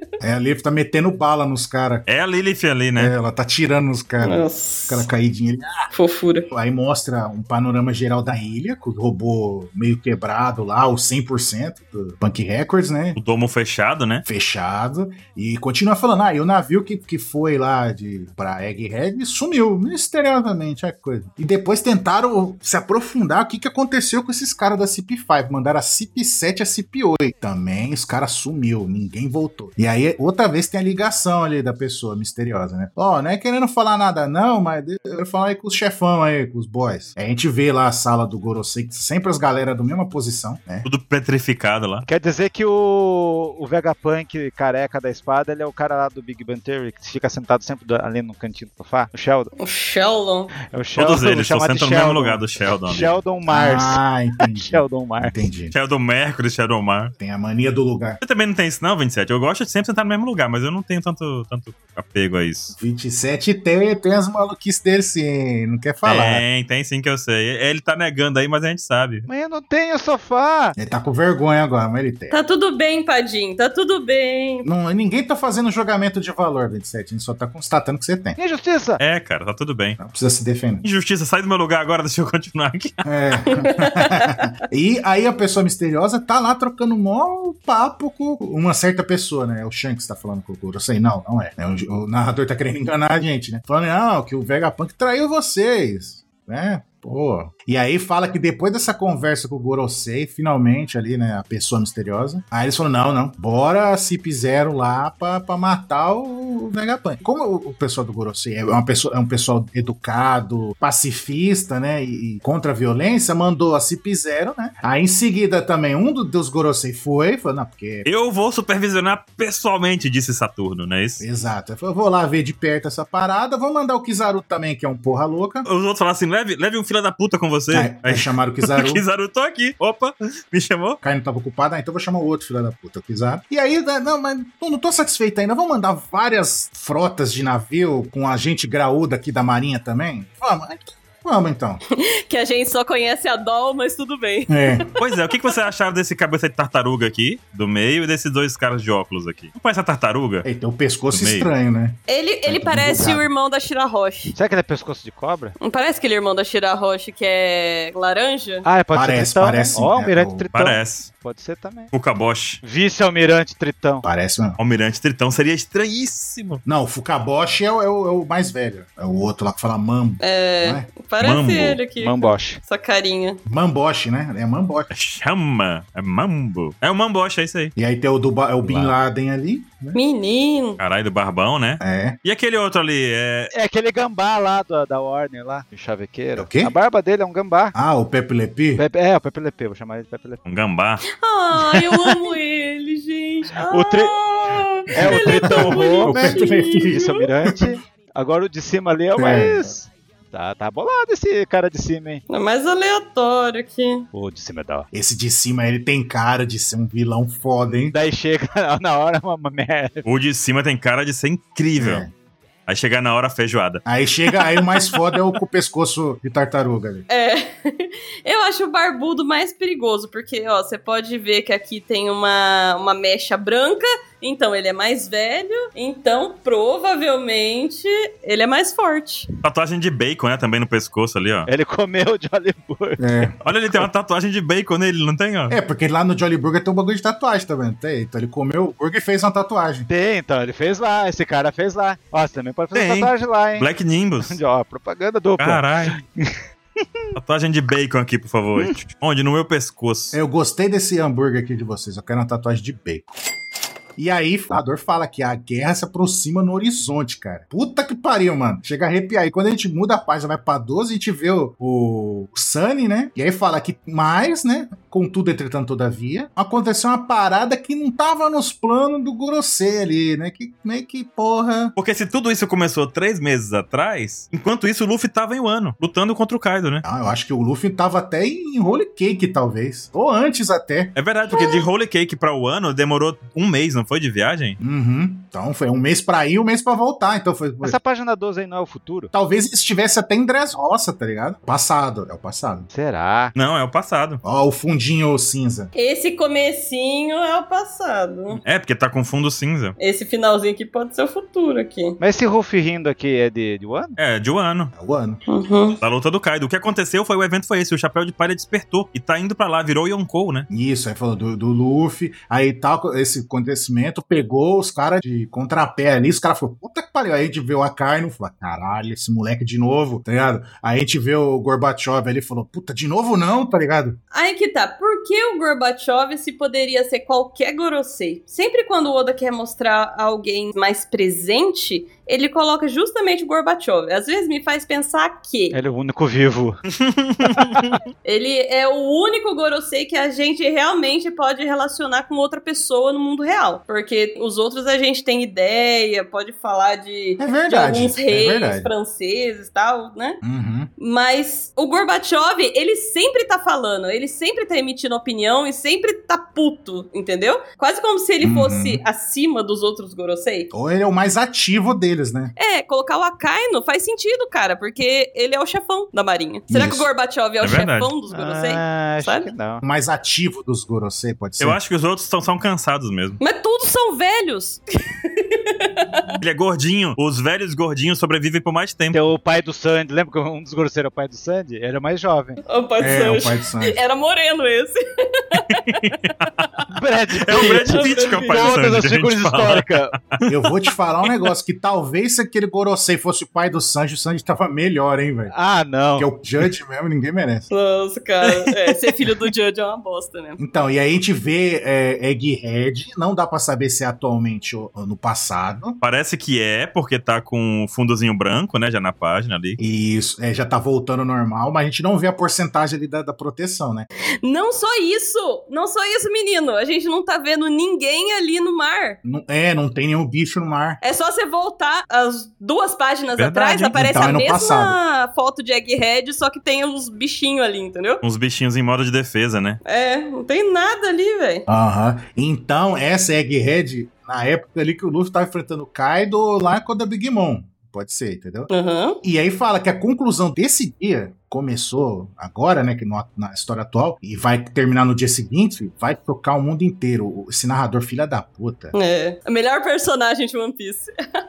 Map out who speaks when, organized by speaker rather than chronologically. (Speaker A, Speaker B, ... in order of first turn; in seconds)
Speaker A: 0.2-2.1, 3.0-5.9, 6.5-13.2, 14.3-40.9, 53.5-55.7, 57.2-58.2, 62.8-66.4, 70.8-72.3, 74.6-78.4, 80.0-80.8, 83.0-118.1, 121.2-125.7, 127.7-129.0, 131.0-141.8, 144.5-144.9, 150.4-153.3, 158.9-160.5, 164.0-164.6, 166.7-170.9, 173.5-174.9, 177.8-180.0, 181.8-182.2, 186.4-186.7, 187.8-188.8, 195.1-197.8, 199.2-199.7, 204.9-207.9, 211.8-212.1, 213.9-217.1, 233.0-233.3, 235.5-239.9, 250.1-253.2, 254.0-271.8, 276.8-280.9, 284.6-287.8, 289.1-292.7, 294.2-295.7, 304.7-305.2, 310.5-324.0, 347.2-348.7, 350.2-350.7, 358.2-358.8, 360.5-362.3, 366.5-366.9, 369.6-371.6, 382.8-383.8, 390.3-395.3, 396.0-397.5, 400.4-405.8, 409.6-413.9, 419.0-420.8, 423.7-424.8, 431.5-438.5, 439.0-448.7
Speaker B: 2.1-3.1, 13.2-14.2, 40.8-42.1, 51.0-53.2, 55.7-57.1, 58.2-62.8, 66.0-69.3, 79.0-80.0, 80.8-83.0, 118.0-121.2, 125.7-131.0, 145.0-150.5, 151.1-151.5, 160.5-161.1, 161.9-162.6, 164.6-166.6, 171.2-171.8, 174.9-177.7, 180.8-183.5, 190.4-191.0, 210.1-212.1, 212.7-213.8, 229.4-231.5, 233.4-235.6, 242.7-244.4, 245.4-246.0, 247.2-250.2, 271.8-276.8, 280.9-284.6, 293.4-294.2, 298.4-299.8, 304.0-304.7, 305.8-310.5, 336.7-337.8, 367.4-367.9, 371.4-373.2, 376.2-379.0, 385.4-386.5, 387.2-390.3, 398.2-399.0, 405.8-409.6, 423.2-424.2, 428.0-429.6
Speaker C: 4.2-5.1, 5.9-6.5, 49.6-50.5, 72.3-74.7, 83.5-84.4, 141.9-145.2, 152.1-154.3, 155.6-158.7, 170.2-173.4, 179.9-180.8, 191.2-197.2, 202.3-204.1, 217.1-229.3, 281.3-281.6, 295.7-298.4, 299.8-302.0, 305.3-305.8, 324.1-335.6, 338.0-350.2, 350.8-360.5, 362.4-369.3, 373.2-376.2, 382.5-385.6, 387.3-388.6, 397.5-400.4, 414.2-419.0, 420.8-428.0, 429.6-431.4, 438.5-439.0, 448.8-450.9
Speaker D: 42.1-49.5, 50.7-54.0, 54.5-55.4, 69.3-70.8, 78.4-79.0, 154.3-155.6, 158.7-161.9, 162.6-164.1, 172.0-172.6, 178.7-178.9, 183.5-187.8, 188.8-190.4, 191.7-192.1, 193.7-202.2, 204.1-204.9, 207.9-210.1, 231.5-233.3, 239.9-243.7, 244.2-246.4, 287.6-289.1, 292.7-293.3, 302.0-304.0, 335.5-336.6, 337.3-337.6, 368.1-369.6, 378.9-382.4, 386.7-389.9, 395.3-396.1